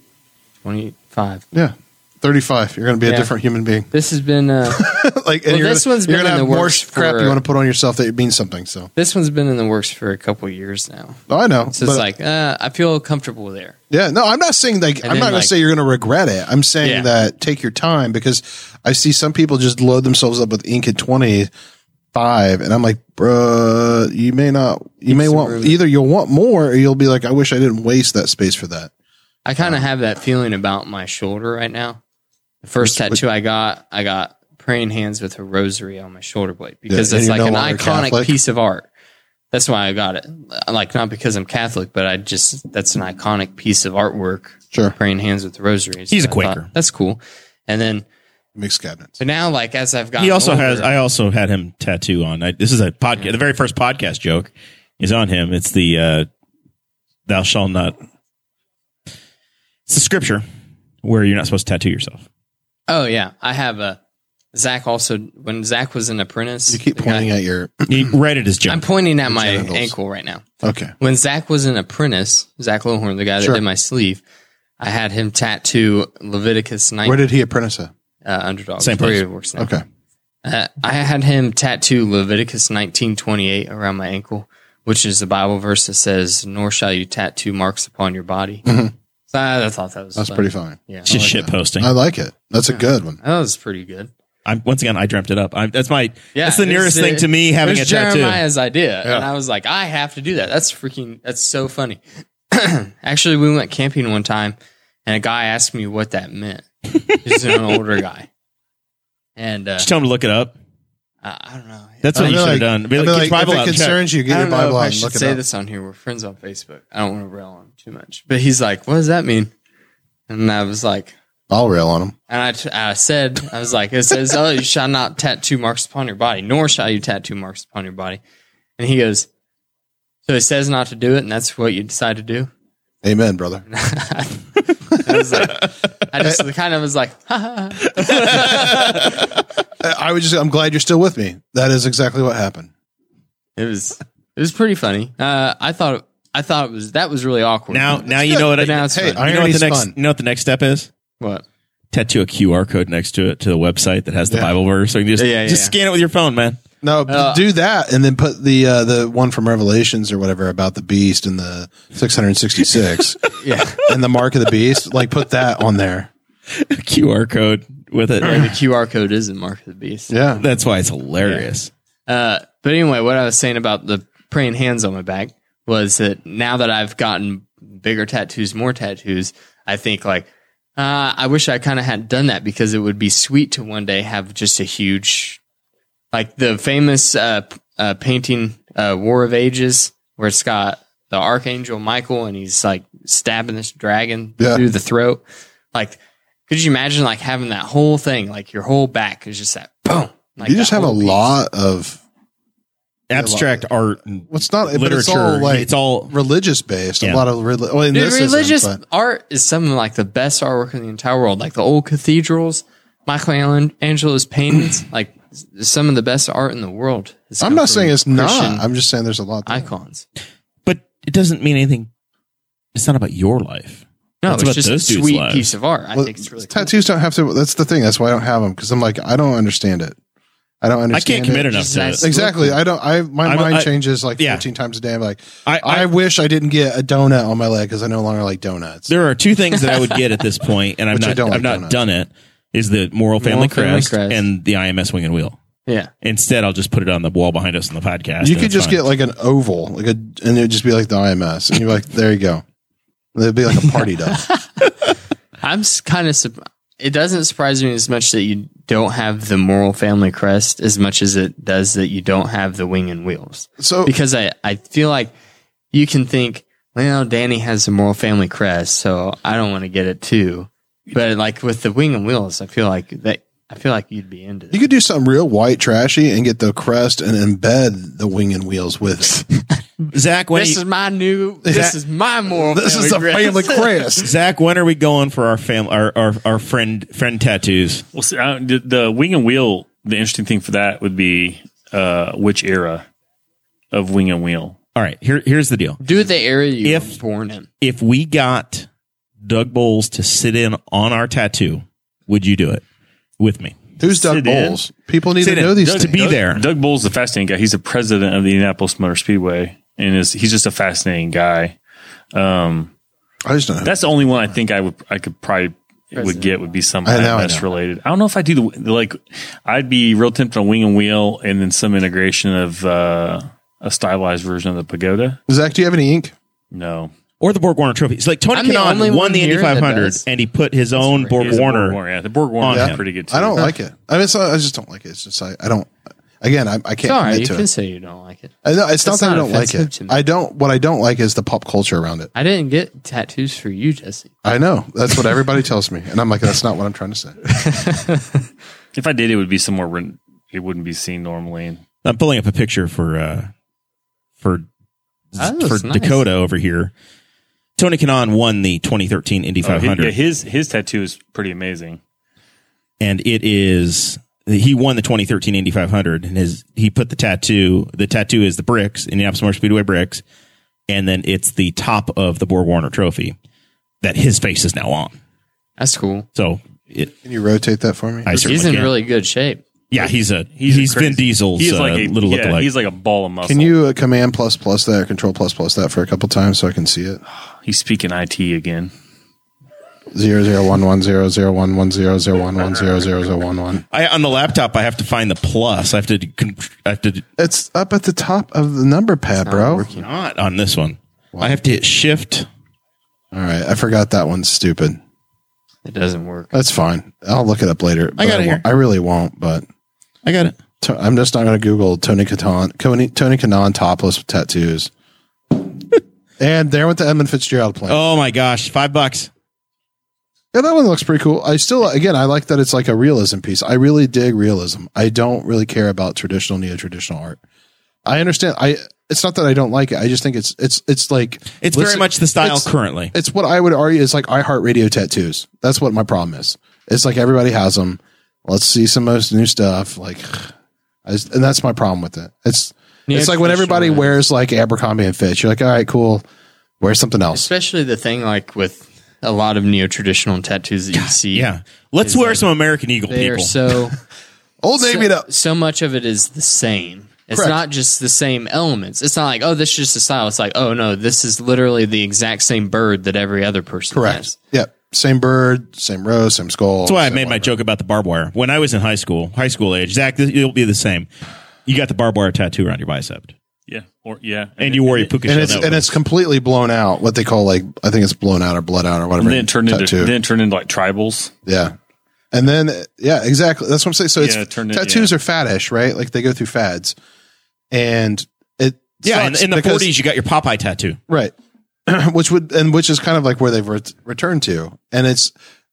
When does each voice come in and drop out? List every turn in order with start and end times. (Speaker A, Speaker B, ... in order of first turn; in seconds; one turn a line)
Speaker A: 0.6-1.4
Speaker B: 1.5-3.9
Speaker A: 3.0-3.3
Speaker A: 3.9-4.8
Speaker B: 4.7-8.9
Speaker A: 5.5-7.4
Speaker A: 8.9-11.2
Speaker B: 11.3-12.0
Speaker A: 11.7-13.8
Speaker B: 13.9-21.5
Speaker A: 15.0-15.5
Speaker A: 16.8-17.1
Speaker B: 22.1-28.9
Speaker A: 25.1-25.8
Speaker A: 29.4-32.0
Speaker A: 32.6-38.9
Speaker B: 32.8-33.2
Speaker B: 36.9-38.3
Speaker A: 39.5-48.0
Speaker C: 46.1-46.7
Speaker B: 48.5-49.2
Speaker A: 49.2-50.9
Speaker C: 50.2-56.3
Speaker C: 57.3-58.0
Speaker C: 59.9-60.4
Speaker C: 61.0-62.2
Speaker A: 62.9-64.0
Speaker A: 64.5-67.3
Speaker B: 66.7-68.1
Speaker C: 67.9-68.8
Speaker A: 68.7-70.4
Speaker B: 69.3-69.9
Speaker B: 70.6-70.9
Speaker A: 71.0-74.2
Speaker A: 74.8-77.2
Speaker B: 77.0-77.9
Speaker A: 78.2-79.7
Speaker C: 78.8-79.2
Speaker B: 79.6-79.8
Speaker A: 80.4-88.6
Speaker B: 88.6-88.9
Speaker A: 89.3-91.1
Speaker B: 90.2-93.2
Speaker C: 91.1-91.9
Speaker A: 92.7-94.1
Speaker C: 94.5-98.4
Speaker A: 96.3-108.3
Speaker A: 109.4-109.9
Speaker C: 109.8-110.5
Speaker A: 111.2-112.5
Speaker C: 112.0-114.0
Speaker B: 112.1-115.4
Speaker A: 114.3-119.5
Speaker A: 120.3-121.1
Speaker B: 121.5-122.1
Speaker A: 122.3-128.2
Speaker A: 128.8-129.3
Speaker A: 130.2-132.5
Speaker B: 133.0-133.7
Speaker A: 133.7-139.1
Speaker C: 138.1-138.4
Speaker B: 138.3-139.1
Speaker B: 139.8-142.7
Speaker A: 143.6-149.2
Speaker C: 147.7-150.9
Speaker B: 148.1-149.9
Speaker C: 151.9-156.6
Speaker A: 155.2-155.7
Speaker B: 156.8-166.1
Speaker A: 157.1-157.4
Speaker A: 163.4-163.8
Speaker C: 166.5-168.5
Speaker A: 168.2-170.1
Speaker B: 170.1-170.4
Speaker C: 170.4-171.7
Speaker A: 171.2-171.5
Speaker A: 172.1-185.4
Speaker A: 186.1-195.2
Speaker A: 195.7-201.2
Speaker B: 200.4-202.0
Speaker C: 203.1-206.1
Speaker B: 203.1-203.7
Speaker B: 204.3-208.8
Speaker A: 207.9-218.6
Speaker B: 217.4-219.7
Speaker A: 219.4-220.0
Speaker C: 220.7-221.9
Speaker C: 222.7-225.5
Speaker A: 224.2-226.7
Speaker B: 225.9-229.9
Speaker B: 230.6-238.9
Speaker C: 230.9-232.1
Speaker A: 231.5-232.6
Speaker C: 233.2-234.4
Speaker C: 235.4-235.9
Speaker C: 238.9-245.3
Speaker B: 240.9-241.8
Speaker A: 243.2-244.2
Speaker C: 246.0-248.8
Speaker B: 248.2-252.4
Speaker B: 253.1-254.2
Speaker A: 254.1-254.4
Speaker A: 255.4-265.1
Speaker B: 263.6-263.9
Speaker A: 265.7-274.6
Speaker B: 274.5-279.4
Speaker C: 279.9-280.6
Speaker A: 280.3-284.0
Speaker B: 281.4-281.7
Speaker B: 282.3-284.1
Speaker C: 284.0-287.8
Speaker D: 287.9-292.9
Speaker D: 293.7-294.6
Speaker C: 294.7-295.8
Speaker A: 295.8-297.5
Speaker C: 296.6-296.9
Speaker C: 297.6-298.7
Speaker C: 299.2-302.6
Speaker C: 303.2-303.6
Speaker B: 303.8-306.0
Speaker D: 303.9-304.6
Speaker C: 305.2-306.4
Speaker D: 305.6-311.6
Speaker D: 312.1-312.7
Speaker B: 313.2-313.8
Speaker D: 313.6-325.2
Speaker A: 315.9-316.3
Speaker B: 316.8-317.4
Speaker B: 325.3-326.1
Speaker D: 326.5-326.9
Speaker C: 327.2-331.8
Speaker A: 328.3-330.0
Speaker A: 330.8-331.4
Speaker D: 331.2-333.5
Speaker C: 332.4-332.8
Speaker B: 332.4-337.4
Speaker A: 336.8-340.0
Speaker B: 338.4-342.1
Speaker A: 342.1-344.1
Speaker B: 344.2-347.2
Speaker A: 347.3-348.2
Speaker D: 348.7-351.6
Speaker C: 351.8-353.3
Speaker C: 354.2-354.4
Speaker C: 355.1-356.7
Speaker A: 355.2-356.0
Speaker C: 357.6-359.9
Speaker D: 359.4-361.8
Speaker C: 362.8-370.0
Speaker C: 370.7-373.1
Speaker C: 373.8-374.9
Speaker A: 375.6-376.1
Speaker C: 376.1-376.9
Speaker B: 377.0-378.5
Speaker C: 378.1-378.7
Speaker A: 378.2-379.4
Speaker C: 379.7-382.5
Speaker D: 379.8-383.5
Speaker B: 383.2-387.0
Speaker D: 387.3-388.7
Speaker B: 389.9-393.6
Speaker C: 393.7-397.0
Speaker B: 397.2-399.6
Speaker A: 399.2-399.9
Speaker C: 399.7-402.3
Speaker B: 401.1-401.4
Speaker B: 403.1-404.8
Speaker A: 405.6-406.3
Speaker B: 406.3-409.4
Speaker C: 408.0-408.4
Speaker C: 410.0-410.3
Speaker B: 410.6-414.7
Speaker B: 416.2-417.8
Speaker C: 417.7-419.1
Speaker B: 420.3-427.2
Speaker B: 427.9-440.3
Speaker C: 431.4-432.9
Speaker B: 440.9-446.0
Speaker A: 442.9-444.0
Speaker B: 446.6-447.3
Speaker A: 447.1-451.3
Speaker C: 450.7-453.3
Speaker A: 451.8-452.2
Speaker A: 452.9-453.8
Speaker B: 454.4-455.1
Speaker A: 454.6-464.1
Speaker B: 463.7-467.3
Speaker C: 466.6-470.9
Speaker C: 471.4-473.1
Speaker D: 473.5-475.3
Speaker C: 474.4-475.7
Speaker B: 475.0-479.9
Speaker D: 479.0-481.1
Speaker B: 481.2-481.5
Speaker B: 482.1-486.7
Speaker D: 484.0-484.9
Speaker B: 487.5-489.7
Speaker C: 488.8-490.8
Speaker B: 491.7-495.1